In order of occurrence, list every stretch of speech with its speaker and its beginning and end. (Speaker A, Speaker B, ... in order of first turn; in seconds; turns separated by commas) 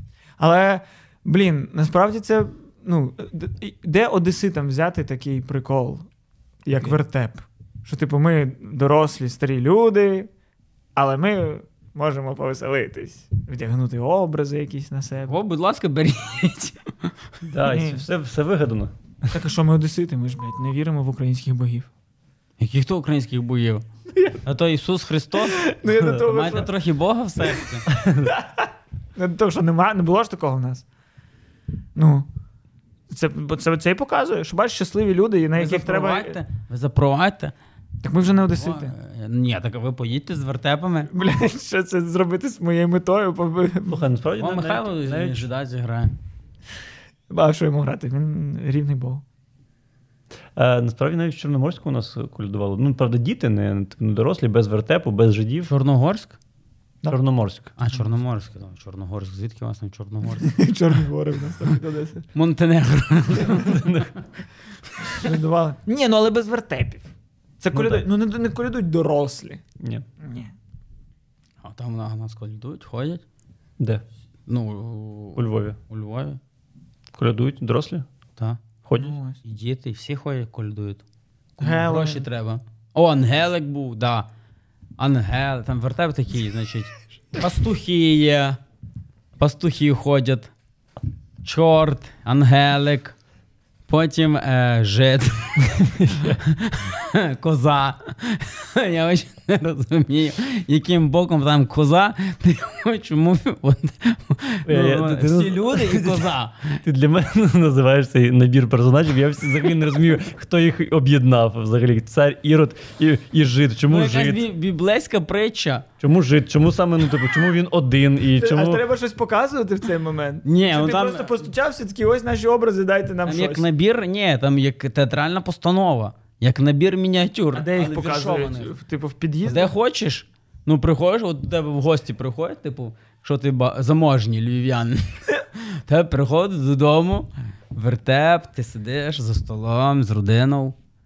Speaker A: 0.4-6.1, Speaker A: 6.7-10.3, Speaker A: 10.9-15.4, Speaker B: 15.2-17.1, Speaker C: 17.4-18.9, Speaker A: 17.6-18.1, Speaker A: 19.3-21.9, Speaker B: 22.6-23.8, Speaker B: 24.4-27.9, Speaker A: 25.4-26.7, Speaker C: 27.9-28.3, Speaker A: 28.2-30.8, Speaker A: 31.9-32.3, Speaker A: 33.1-36.4, Speaker B: 35.5-37.5, Speaker A: 38.0-38.9, Speaker B: 38.3-41.1, Speaker A: 41.1-44.1, Speaker C: 43.9-45.5, Speaker B: 44.4-46.1, Speaker A: 47.3-49.2, Speaker C: 50.5-55.7, Speaker B: 55.6-56.4, Speaker C: 57.1-57.7, Speaker B: 57.8-60.5, Speaker A: 60.4-62.3, Speaker B: 62.3-64.0, Speaker C: 63.5-64.1, Speaker A: 65.1-67.1, Speaker A: 67.6-69.6, Speaker C: 67.7-68.0, Speaker C: 69.8-70.0, Speaker A: 70.2-70.5, Speaker B: 71.6-73.2, Speaker B: 74.5-76.4, Speaker C: 75.3-75.8, Speaker C: 77.1-78.0, Speaker B: 78.4-78.6, Speaker C: 78.8-79.1, Speaker A: 79.0-79.4, Speaker B: 79.4-81.0, Speaker A: 81.6-82.3, Speaker B: 81.6-84.3, Speaker B: 85.0-88.6, Speaker B: 89.4-90.5, Speaker B: 91.4-93.2, Speaker B: 93.9-106.8, Speaker C: 95.7-96.4, Speaker C: 104.7-106.3, Speaker C: 106.8-114.5, Speaker B: 113.9-115.8, Speaker C: 116.0-118.8, Speaker A: 118.3-123.7, Speaker B: 120.4-121.4, Speaker B: 123.2-128.7, Speaker A: 127.5-129.7, Speaker B: 129.4-140.8